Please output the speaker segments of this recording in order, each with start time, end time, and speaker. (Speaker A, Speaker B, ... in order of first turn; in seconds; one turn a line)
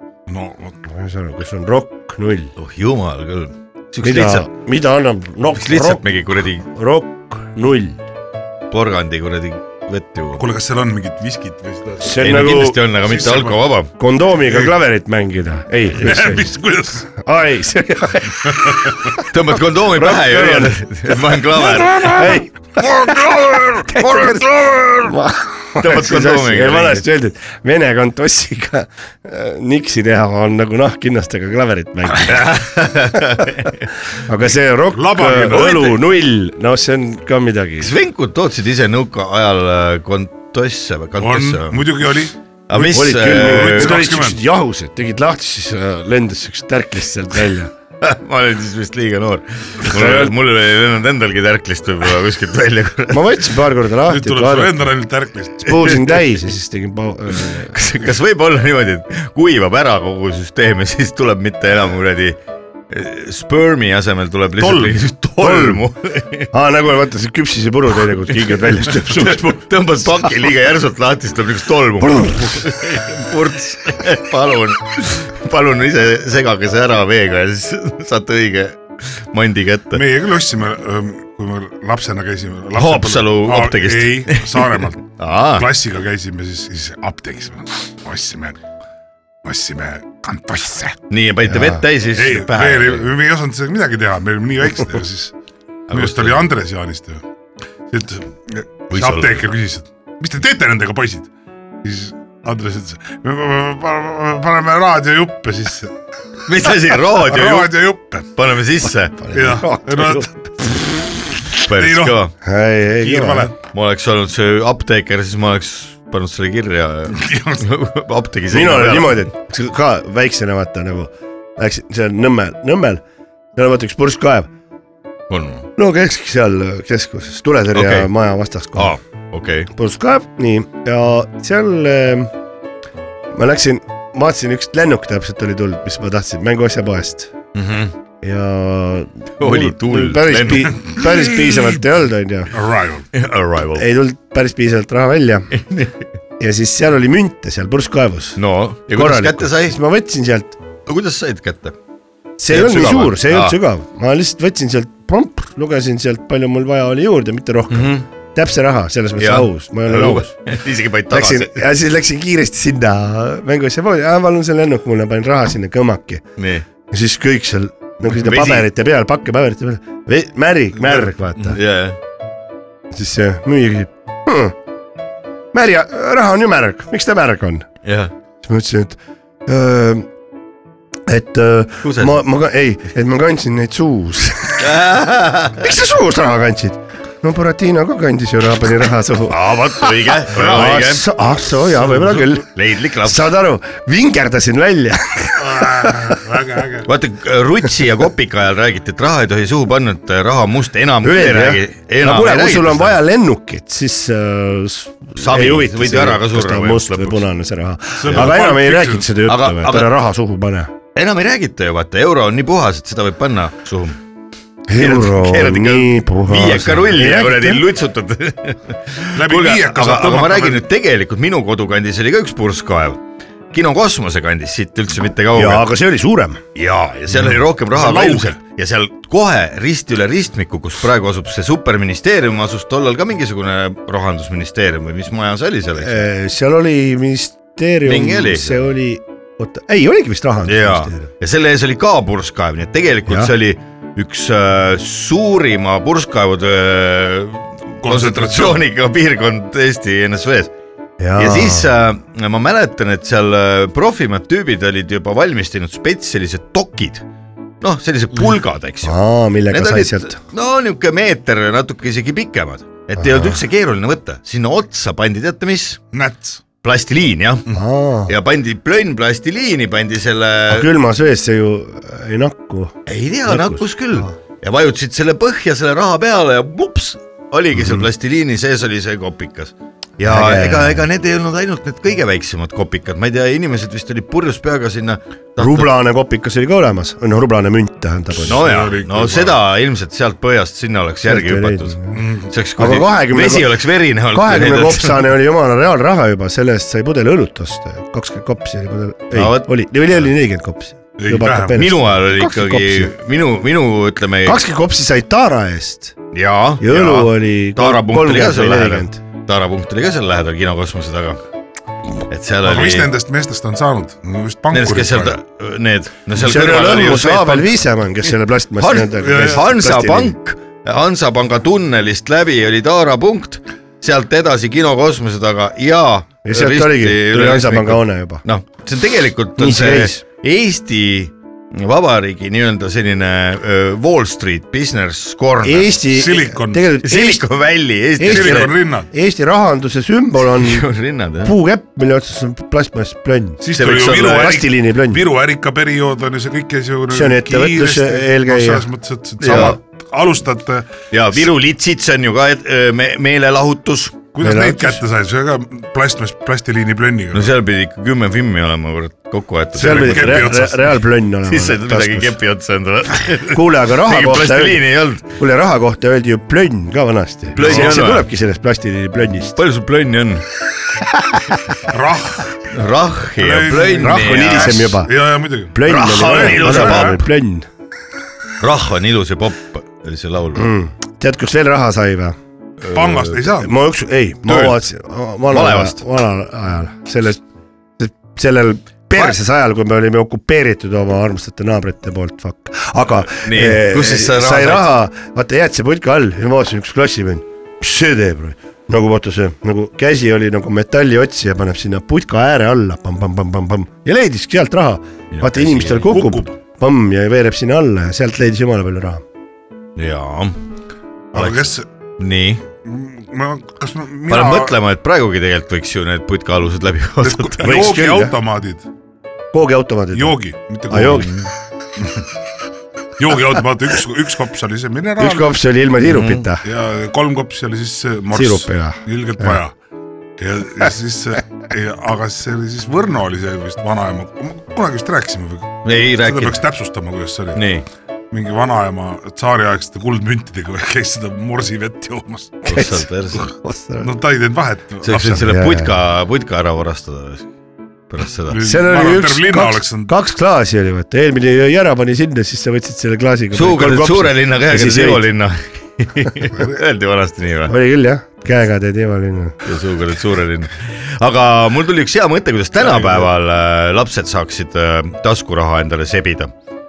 Speaker A: 0.3-0.8
Speaker B: 0.9-2.5
Speaker C: 2.6-4.5
Speaker B: 4.0-6.0
Speaker C: 5.6-6.7
Speaker B: 6.7-8.0
Speaker C: 8.7-10.4
Speaker A: 10.4-12.1
Speaker B: 12.0-12.8
Speaker C: 12.2-13.9
Speaker A: 12.8-13.6
Speaker B: 14.0-16.4
Speaker A: 14.5-14.7
Speaker A: 16.0-17.1
Speaker B: 17.2-19.2
Speaker A: 18.5-18.9
Speaker C: 19.3-25.2
Speaker B: 19.9-20.8
Speaker B: 21.7-22.5
Speaker B: 23.9-24.4
Speaker B: 25.0-33.5
Speaker C: 25.8-27.1
Speaker C: 32.2-33.9
Speaker B: 34.1-37.9
Speaker A: 34.9-36.0
Speaker C: 37.8-41.9
Speaker A: 41.2-42.3
Speaker C: 42.7-44.0
Speaker B: 42.7-47.7
Speaker A: 43.2-44.4
Speaker C: 48.0-53.4
Speaker B: 49.9-50.3
Speaker B: 53.1-54.9
Speaker A: 54.1-56.3
Speaker B: 55.6-57.8
Speaker C: 57.5-62.4
Speaker C: 62.9-66.5
Speaker A: 64.6-65.1
Speaker B: 65.4-65.8
Speaker B: 66.5-69.5
Speaker C: 68.3-80.0
Speaker B: 72.0-72.6
Speaker A: 79.9-88.6
Speaker C: 82.8-85.7
Speaker A: 89.4-91.0
Speaker C: 91.1-93.1
Speaker B: 91.5-91.8
Speaker A: 92.1-95.3
Speaker C: 95.9-96.4
Speaker A: 95.9-97.2
Speaker A: 97.9-101.3
Speaker C: 98.9-99.4
Speaker A: 101.8-105.9
Speaker C: 106.5-107.8
Speaker A: 107.2-108.3
Speaker C: 108.3-109.3
Speaker B: 109.2-110.3
Speaker A: 109.3-110.8
Speaker A: 111.6-112.2
Speaker C: 111.6-112.3
Speaker B: 112.4-113.5
Speaker A: 113.0-113.5
Speaker C: 113.7-119.2
Speaker A: 117.1-117.6
Speaker B: 118.5-123.0
Speaker B: 123.6-124.5
Speaker C: 125.3-125.7
Speaker B: 125.8-129.0
Speaker C: 127.7-128.1
Speaker C: 128.8-129.7
Speaker B: 129.7-132.3
Speaker B: 133.3-137.3
Speaker C: 137.5-137.9
Speaker B: 138.2-142.5
Speaker C: 139.4-140.9
Speaker A: 141.1-141.6
Speaker A: 142.5-143.1
Speaker C: 143.1-143.9
Speaker B: 143.8-145.5
Speaker C: 145.5-146.0
Speaker B: 146.4-148.4
Speaker C: 148.4-149.8
Speaker B: 148.9-150.6
Speaker C: 150.9-151.8
Speaker B: 152.4-160.3
Speaker C: 152.5-153.6
Speaker C: 157.7-158.1
Speaker C: 159.2-161.7
Speaker B: 161.1-166.2
Speaker C: 166.4-166.7
Speaker B: 166.9-171.6
Speaker C: 168.1-168.7
Speaker C: 171.4-172.0
Speaker B: 172.9-174.6
Speaker B: 175.5-177.7
Speaker C: 177.8-178.1
Speaker B: 178.4-180.1
Speaker B: 181.1-184.7
Speaker C: 181.8-182.2
Speaker C: 184.6-185.7
Speaker B: 185.5-189.4
Speaker C: 189.3-191.1
Speaker B: 190.3-192.5
Speaker A: 190.3-190.8
Speaker C: 192.3-193.4
Speaker B: 193.0-196.1
Speaker A: 195.4-196.9
Speaker C: 196.8-203.0
Speaker B: 201.0-210.7
Speaker C: 205.2-207.2
Speaker A: 208.0-209.1
Speaker C: 208.1-208.4
Speaker C: 209.2-209.9
Speaker C: 210.9-214.0
Speaker B: 214.7-217.7
Speaker C: 214.8-225.7
Speaker A: 219.1-220.7
Speaker B: 225.3-226.4
Speaker C: 226.6-236.0
Speaker A: 227.3-228.4
Speaker B: 235.8-241.1
Speaker C: 237.8-238.6
Speaker C: 240.5-250.5
Speaker B: 243.1-243.3
Speaker A: 247.8-248.6
Speaker B: 251.0-251.7
Speaker C: 251.2-257.1
Speaker C: 257.6-259.0
Speaker B: 258.8-260.2
Speaker C: 259.5-265.8
Speaker B: 263.0-263.4
Speaker A: 265.9-266.4
Speaker C: 266.6-267.5
Speaker B: 267.5-268.1
Speaker C: 268.1-270.7
Speaker B: 270.5-274.1
Speaker C: 272.9-285.7
Speaker B: 280.0-280.9
Speaker B: 285.4-288.6
Speaker C: 288.2-295.1
Speaker A: 288.3-289.4
Speaker B: 291.1-292.0
Speaker A: 291.9-292.3
Speaker B: 292.6-302.9
Speaker C: 299.1-299.5
Speaker A: 301.0-301.7
Speaker C: 301.5-304.4
Speaker B: 304.2-305.9
Speaker C: 306.1-311.2
Speaker B: 306.6-309.0
Speaker C: 312.1-312.9
Speaker A: 312.4-315.2
Speaker C: 314.5-317.5
Speaker B: 316.2-320.1
Speaker C: 318.6-335.7
Speaker A: 319.0-319.4
Speaker B: 326.2-328.2
Speaker B: 329.4-330.0
Speaker B: 335.4-337.2
Speaker A: 335.9-336.7
Speaker C: 336.8-338.5
Speaker B: 338.0-340.6
Speaker A: 338.1-338.9
Speaker C: 340.2-341.3
Speaker B: 341.2-343.4
Speaker A: 343.4-350.7
Speaker C: 343.5-344.4
Speaker B: 343.9-345.0
Speaker B: 346.9-348.7
Speaker B: 349.2-349.6
Speaker C: 349.2-349.6
Speaker C: 350.9-354.0
Speaker A: 354.1-357.3
Speaker B: 354.2-354.8
Speaker C: 357.1-360.4
Speaker A: 359.6-360.7
Speaker B: 359.6-362.2
Speaker C: 361.2-365.1
Speaker B: 363.3-369.4
Speaker C: 367.4-368.1
Speaker A: 367.4-367.8
Speaker C: 369.4-370.2
Speaker A: 371.7-372.3
Speaker C: 372.5-374.8
Speaker A: 373.2-377.0
Speaker B: 373.8-374.9
Speaker B: 375.5-377.5
Speaker C: 375.6-377.0
Speaker C: 378.4-380.5
Speaker B: 380.4-382.2
Speaker C: 382.6-383.2
Speaker A: 382.7-383.5
Speaker B: 383.4-387.2
Speaker C: 384.3-384.6
Speaker C: 385.3-385.8
Speaker B: 387.8-409.0
Speaker C: 393.1-394.7
Speaker C: 405.1-405.9
Speaker A: 405.8-406.3
Speaker C: 409.8-410.4
Speaker A: 411.1-411.7
Speaker C: 411.1-411.5
Speaker C: 412.0-412.4
Speaker A: 412.6-414.6
Speaker C: 414.1-417.7
Speaker A: 417.0-418.6
Speaker B: 417.4-418.1
Speaker B: 419.3-420.2
Speaker A: 419.9-421.1
Speaker B: 420.7-421.1
Speaker A: 423.0-425.4
Speaker B: 425.0-426.4
Speaker C: 425.9-426.3
Speaker A: 426.4-429.5
Speaker B: 428.1-429.4
Speaker A: 430.2-437.4
Speaker C: 435.6-436.4
Speaker C: 437.4-437.7
Speaker A: 438.1-442.5
Speaker C: 442.5-443.3
Speaker B: 442.5-443.9
Speaker A: 443.8-445.3
Speaker C: 444.8-447.3
Speaker B: 445.2-445.7
Speaker C: 447.9-448.4
Speaker A: 448.3-449.9
Speaker B: 448.4-455.1
Speaker C: 453.3-457.5
Speaker B: 457.5-459.4
Speaker C: 459.4-466.3
Speaker A: 462.6-463.1